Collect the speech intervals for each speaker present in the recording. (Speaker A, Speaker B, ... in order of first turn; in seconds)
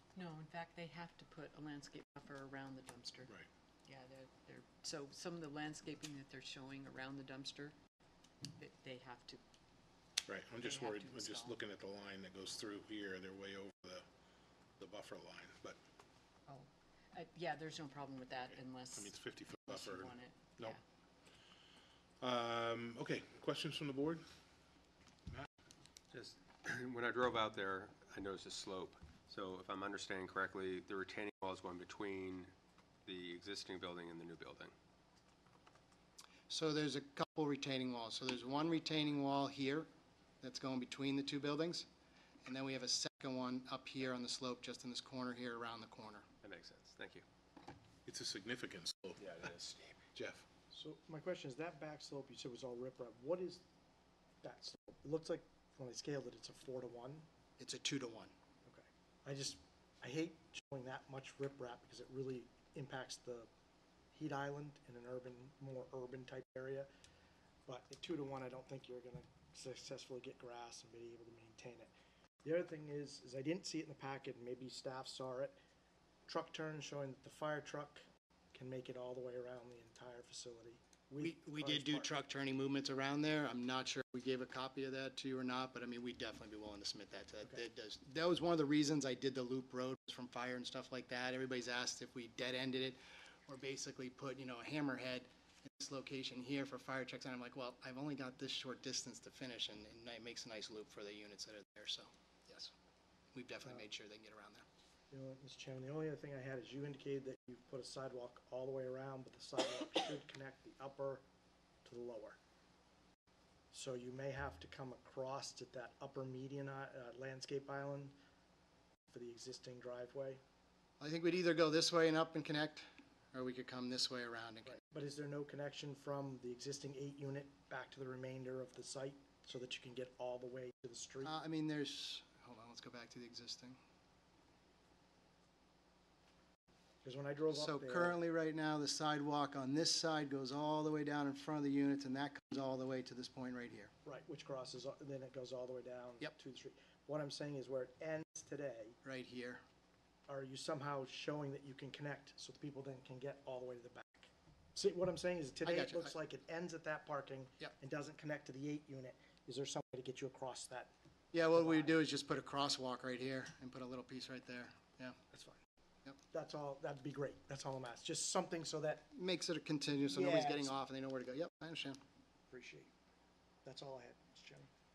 Speaker A: 0.1-3.3, 3.9-7.8, 8.5-9.4, 10.6-11.6, 16.5-20.8
Speaker B: 10.2-14.1, 14.8-15.8, 18.5-20.8, 22.2-24.2, 48.1-49.5, 50.1-50.4
Speaker C: 26.1-32.5, 33.0-34.7, 46.4-47.2, 49.2-50.0
Speaker D: 36.5-39.9, 40.4-41.9, 42.4-46.2, 57.6-58.3, 81.2-102.7, 103.3-104.6, 121.0-124.8, 131.2-133.8, 137.5-143.9, 149.0-149.6, 155.6-156.1, 161.3-165.2, 169.1-172.0
Speaker E: 50.7-53.6, 54.4-57.3, 58.6-63.5, 64.1-66.9, 67.7-71.9, 72.4-75.5, 76.3-82.1, 105.1-111.2, 111.8-112.4, 113.7-118.2, 119.1-120.4, 124.6-131.3, 137.0-138.2, 144.0-149.0, 150.3-162.0, 165.3-165.6, 166.3-169.1, 170.1-170.7, 172.5-172.9, 173.6-174.7